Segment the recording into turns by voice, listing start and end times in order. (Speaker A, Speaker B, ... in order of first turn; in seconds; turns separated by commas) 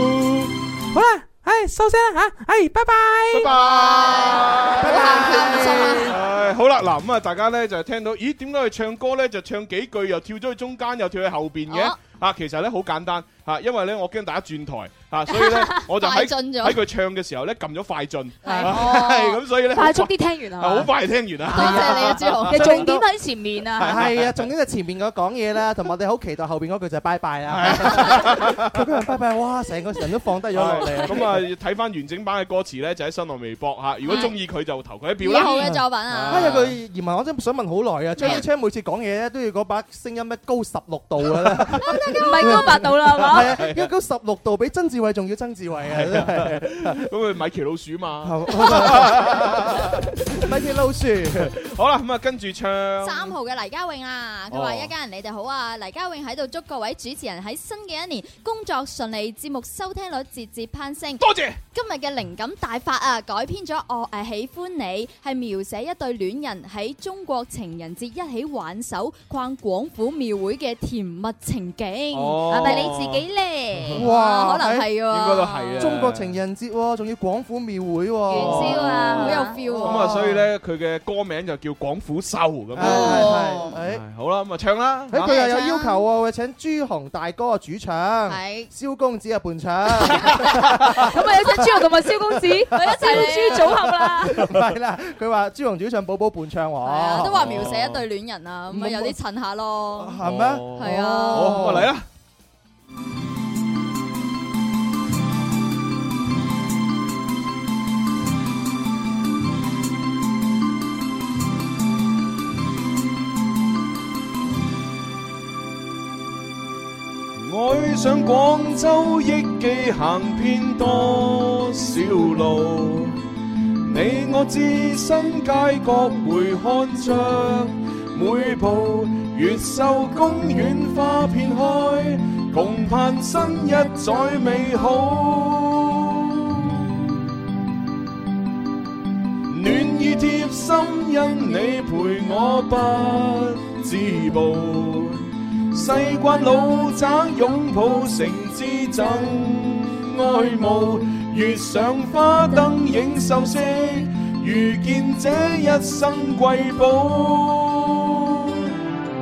Speaker A: 0.9-3.5, Speaker B: 3.3-22.9, Speaker C: 3.5-6.2, Speaker D: 4.7-6.2, Speaker C: 11.7-12.0, Speaker C: 15.7-16.8, Speaker C: 18.4-18.7, Speaker E: 18.6-20.9, Speaker D: 21.5-23.1, Speaker C: 21.5-22.7, Speaker E: 22.5-24.1, Speaker D: 23.8-31.4, Speaker B: 23.8-24.3, Speaker B: 27.5-28.7, Speaker B: 30.5-36.8, Speaker C: 35.2-36.5, Speaker D: 35.5-47.0, Speaker C: 42.0-42.4, Speaker E: 42.0-43.6, Speaker B: 43.3-43.9, Speaker B: 45.9-50.4, Speaker D: 48.2-49.6, Speaker D: 50.3-51.5, Speaker B: 51.4-53.4, Speaker C: 53.0-73.0, Speaker B: 54.5-54.9, Speaker B: 61.2-61.6, Speaker B: 72.1-74.1, Speaker E: 72.5-74.0, Speaker D: 74.0-74.9, Speaker C: 74.0-75.8, Speaker B: 75.1-76.4, Speaker D: 75.8-80.4, Speaker E: 78.3-79.6, Speaker C: 78.3-80.2, Speaker B: 78.4-79.0, Speaker B: 79.8-85.3, Speaker D: 82.8-84.0, Speaker C: 82.8-83.7, Speaker E: 83.0-83.4, Speaker D: 85.1-97.6, Speaker C: 85.3-86.0, Speaker C: 88.3-88.7, Speaker E: 90.8-94.5, Speaker C: 93.0-93.7, Speaker C: 96.8-100.2, Speaker B: 97.2-98.0, Speaker D: 98.7-99.2, Speaker D: 100.0-101.9, Speaker B: 100.2-102.1, Speaker C: 100.8-101.8, Speaker B: 117.4-123.2, Speaker B: 123.8-136.9, Speaker B: 139.5-158.5